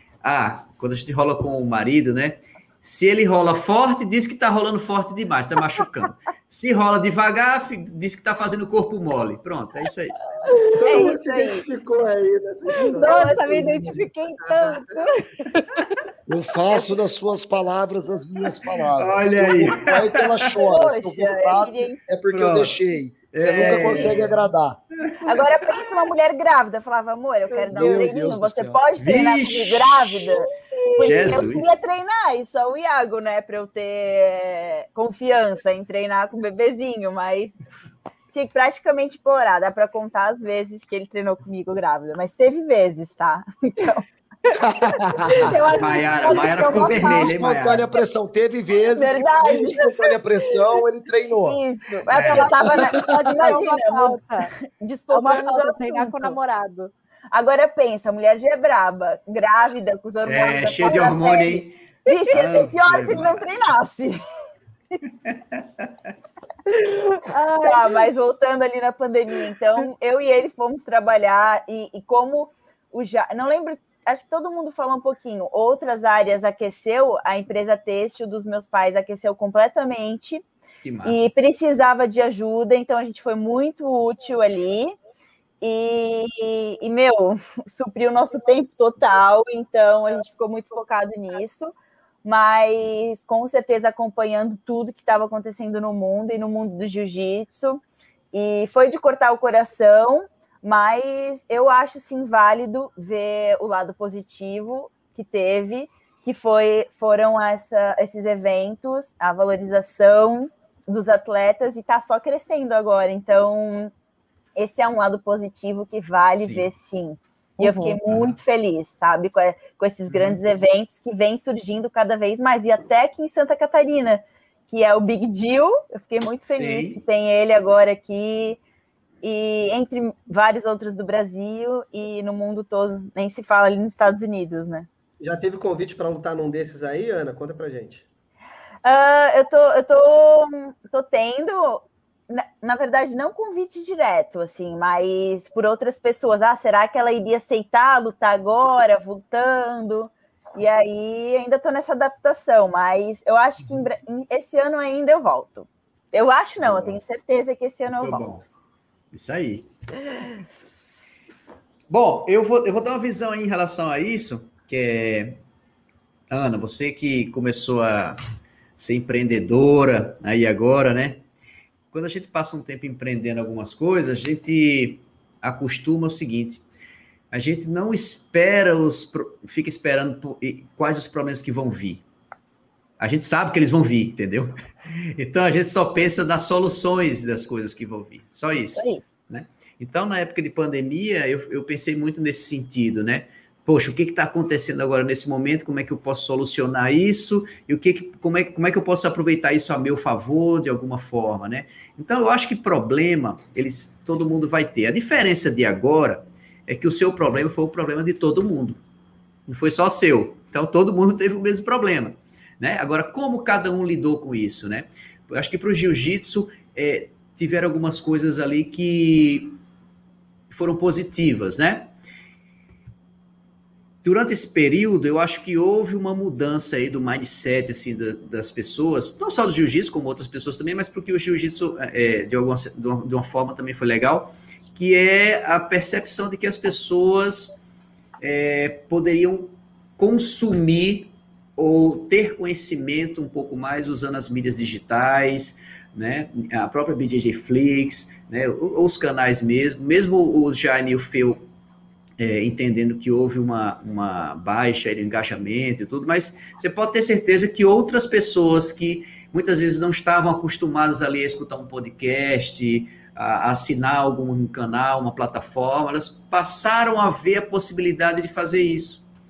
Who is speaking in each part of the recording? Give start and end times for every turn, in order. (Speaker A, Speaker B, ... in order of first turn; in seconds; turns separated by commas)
Speaker A: 0.2-10.2, Speaker B: 10.4-11.1, Speaker C: 10.8-15.1, Speaker D: 10.8-11.7, Speaker B: 12.7-16.0, Speaker D: 12.9-13.7, Speaker E: 16.3-24.8, Speaker A: 19.0-20.6, Speaker D: 20.6-22.0, Speaker A: 22.3-22.8, Speaker A: 23.3-24.5, Speaker D: 23.6-24.0, Speaker A: 25.1-25.4, Speaker D: 25.3-37.6, Speaker B: 27.5-27.8, Speaker E: 27.7-28.8, Speaker A: 29.0-30.2, Speaker B: 30.6-31.5, Speaker A: 31.0-31.9, Speaker D: 38.3-44.0, Speaker B: 44.5-47.4, Speaker E: 44.6-45.5, Speaker D: 45.4-46.7, Speaker A: 45.7-47.9, Speaker E: 46.5-51.6, Speaker D: 48.9-49.9, Speaker D: 51.4-56.4, Speaker A: 52.1-52.5, Speaker B: 52.3-54.5, Speaker B: 55.1-56.9, Speaker D: 57.3-64.2, Speaker A: 60.2-61.8, Speaker B: 62.1-62.4, Speaker A: 62.3-63.5, Speaker A: 65.3-65.9, Speaker B: 66.7-68.0, Speaker D: 67.6-80.5, Speaker A: 80.8-81.3, Speaker D: 81.0-85.0, Speaker D: 85.6-97.8, Speaker D: 98.3-113.9, Speaker D: 114.6-128.6, Speaker A: 116.4-116.7, Speaker B: 117.6-118.0, Speaker A: 118.1-118.4, Speaker A: 120.1-120.4, Speaker A: 126.5-127.0, Speaker D: 129.2-134.9, Speaker C: 135.2-138.1, Speaker D: 138.8-158.3, Speaker A: 156.6-157.0, Speaker A: 158.0-158.4, Speaker A: 159.1-159.7, Speaker A: 161.9-165.4, Speaker A: 166.3-168.2, Speaker A: 168.8-171.2, Speaker A: 171.9-176.6, Speaker A: 177.3-182.0, Speaker A: 183.0-208.8, Speaker D: 188.8-189.0, Speaker A: 209.5-219.6, Speaker A: 220.5-221.9, Speaker A: 224.0-237.6, Speaker A: 238.2-251.4, Speaker A: 252.2-269.0